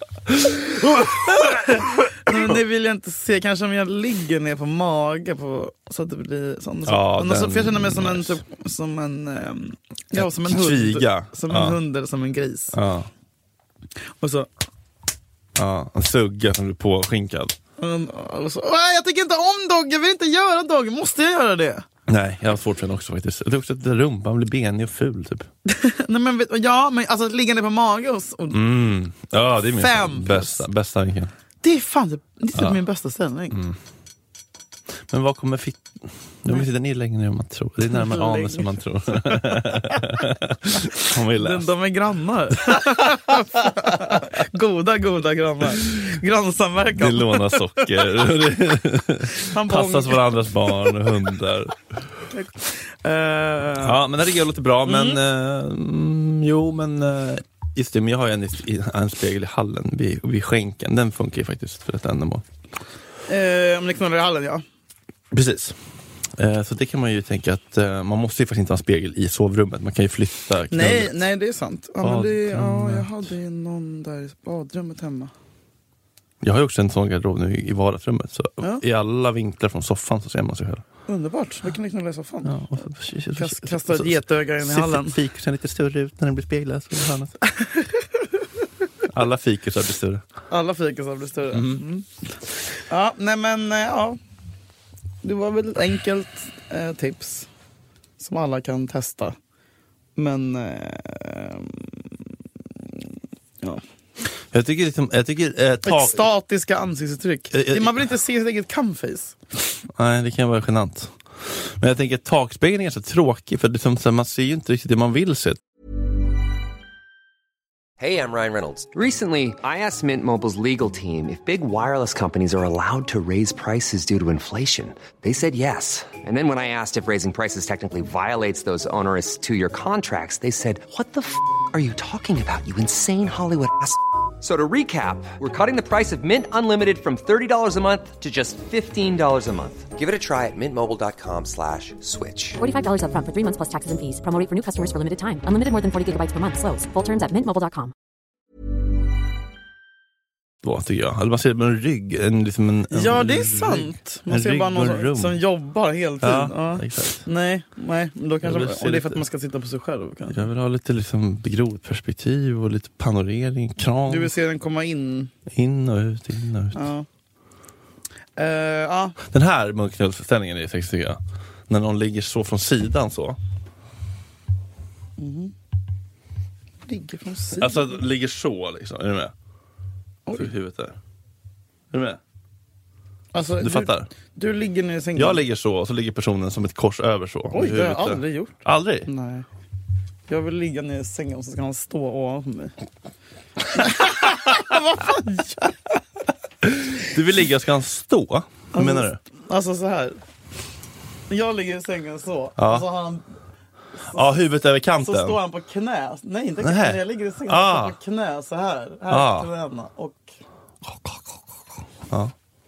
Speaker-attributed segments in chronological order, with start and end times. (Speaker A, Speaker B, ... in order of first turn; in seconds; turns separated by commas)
Speaker A: 0.3-2.5, Speaker B: 2.2-12.7, Speaker A: 6.9-8.4, Speaker A: 10.1-11.8, Speaker A: 12.7-13.1, Speaker B: 14.2-14.5, Speaker A: 15.6-17.6, Speaker B: 17.8-21.9, Speaker A: 22.1-25.5, Speaker B: 25.6-28.6, Speaker A: 28.5-31.3, Speaker B: 29.8-30.6, Speaker B: 31.6-33.6, Speaker A: 33.5-33.8, Speaker A: 35.1-41.7, Speaker B: 37.9-38.7, Speaker B: 39.3-40.0, Speaker B: 41.3-48.0, Speaker A: 42.7-43.9, Speaker A: 46.9-51.8, Speaker B: 49.3-51.1, Speaker B: 52.3-54.0, Speaker A: 53.8-62.4, Speaker B: 54.8-55.2, Speaker B: 63.3-64.6, Speaker A: 65.3-65.8, Speaker A: 66.3-71.2, Speaker B: 70.7-75.3, Speaker A: 72.0-73.1, Speaker A: 76.4-80.8, Speaker B: 81.1-82.7, Speaker A: 82.4-87.4, Speaker B: 83.3-85.2, Speaker B: 87.5-88.0, Speaker A: 89.0-90.2, Speaker B: 90.5-92.0, Speaker A: 91.5-91.8, Speaker B: 92.8-94.2, Speaker B: 95.2-97.5, Speaker B: 98.2-99.4, Speaker B: 100.2-102.0, Speaker A: 104.5-106.2, Speaker B: 105.8-109.4, Speaker A: 107.5-108.0, Speaker A: 110.0-115.6, Speaker C: 118.0-142.6, Speaker D: 142.6-147.9, Speaker A: 150.6-155.4, Speaker B: 152.9-160.4, Speaker A: 156.2-157.2, Speaker A: 158.4-159.2, Speaker A: 160.3-164.3, Speaker B: 164.1-165.3, Speaker A: 165.5-166.8, Speaker B: 166.7-167.1, Speaker B: 168.4-169.2, Speaker A: 169.2-173.4, Speaker B: 175.2-175.5, Speaker B: 176.8-178.0, Speaker A: 177.6-179.3, Speaker A: 180.3-181.0, Speaker A: 181.9-182.2, Speaker B: 183.3-185.4, Speaker A: 183.6-184.1, Speaker A: 185.1-189.1, Speaker B: 187.5-189.4, Speaker B: 190.3-192.7, Speaker B: 193.7-195.9, Speaker A: 196.6-199.2, Speaker B: 198.7-200.2, Speaker B: 201.3-203.2, Speaker A: 202.6-202.9, Speaker A: 204.1-205.4, Speaker B: 205.0-210.3, Speaker A: 206.6-207.9, Speaker A: 209.1-209.5, Speaker A: 212.1-212.3